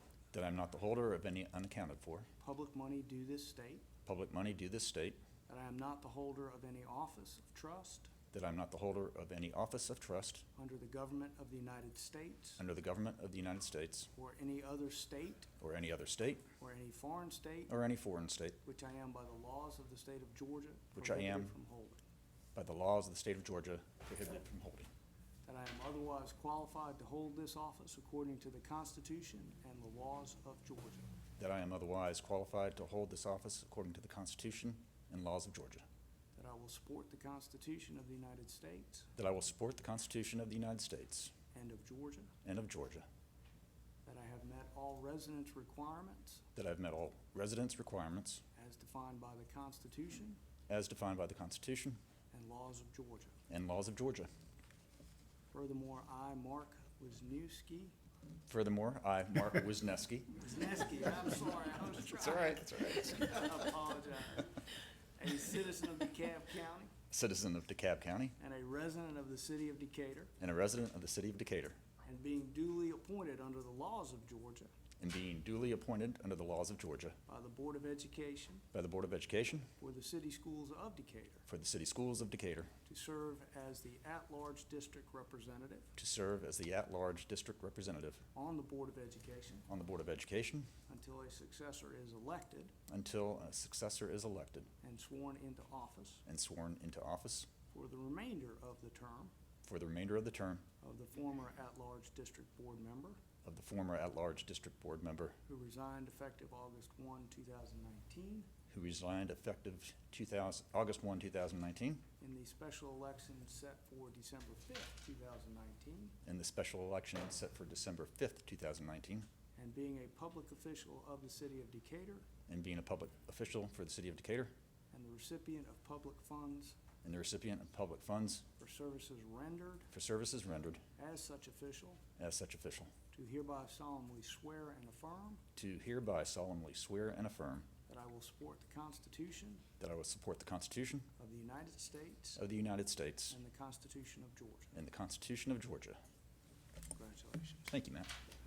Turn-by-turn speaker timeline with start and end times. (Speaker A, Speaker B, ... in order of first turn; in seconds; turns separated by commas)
Speaker A: 0.3-2.3, Speaker B: 2.4-3.8, Speaker A: 4.0-5.2, Speaker B: 5.5-8.1, Speaker A: 8.3-10.4, Speaker B: 10.5-12.6, Speaker A: 12.6-14.1, Speaker B: 14.1-15.5, Speaker A: 15.6-16.4, Speaker B: 16.6-17.8, Speaker A: 17.7-18.6, Speaker B: 18.6-22.0, Speaker A: 20.9-21.5, Speaker A: 22.5-24.9, Speaker B: 25.4-31.1, Speaker A: 31.4-35.8, Speaker B: 36.3-39.1, Speaker A: 39.2-41.3, Speaker B: 41.5-42.3, Speaker A: 42.4-43.0, Speaker B: 44.0-46.4, Speaker A: 46.5-48.4, Speaker B: 48.5-50.4, Speaker A: 50.7-52.0, Speaker B: 52.3-53.4, Speaker A: 53.5-54.3, Speaker B: 55.5-58.0, Speaker A: 58.5-60.3, Speaker B: 60.4-64.5, Speaker A: 62.0-63.5, Speaker B: 65.2-66.9, Speaker A: 67.1-68.3, Speaker B: 68.4-70.3, Speaker A: 70.4-71.8, Speaker B: 72.0-74.7, Speaker A: 75.0-77.2, Speaker B: 77.3-78.6, Speaker A: 78.7-79.7, Speaker B: 79.8-81.5, Speaker A: 81.5-82.7, Speaker B: 82.8-85.9, Speaker A: 86.0-88.2, Speaker B: 88.3-89.7, Speaker A: 89.7-90.7, Speaker B: 90.9-92.7, Speaker A: 92.9-94.7, Speaker B: 94.8-96.2, Speaker A: 96.2-97.5, Speaker B: 97.7-99.3, Speaker A: 99.6-100.6, Speaker B: 100.8-103.2, Speaker A: 103.4-105.3, Speaker B: 105.5-108.5, Speaker A: 108.7-112.0, Speaker B: 112.2-116.1, Speaker A: 116.2-119.3, Speaker B: 119.5-122.2, Speaker A: 122.5-124.5, Speaker B: 124.9-126.8, Speaker A: 127.0-128.4, Speaker B: 128.6-129.9, Speaker A: 129.9-130.8, Speaker B: 130.9-132.0, Speaker A: 132.2-132.9, Speaker B: 133.1-135.4, Speaker A: 135.6-137.7, Speaker B: 137.9-139.7, Speaker A: 139.8-141.1, Speaker B: 141.2-142.4, Speaker A: 142.3-143.3, Speaker B: 143.3-144.7, Speaker A: 144.7-146.0, Speaker B: 146.9-147.7, Speaker A: 147.7-148.1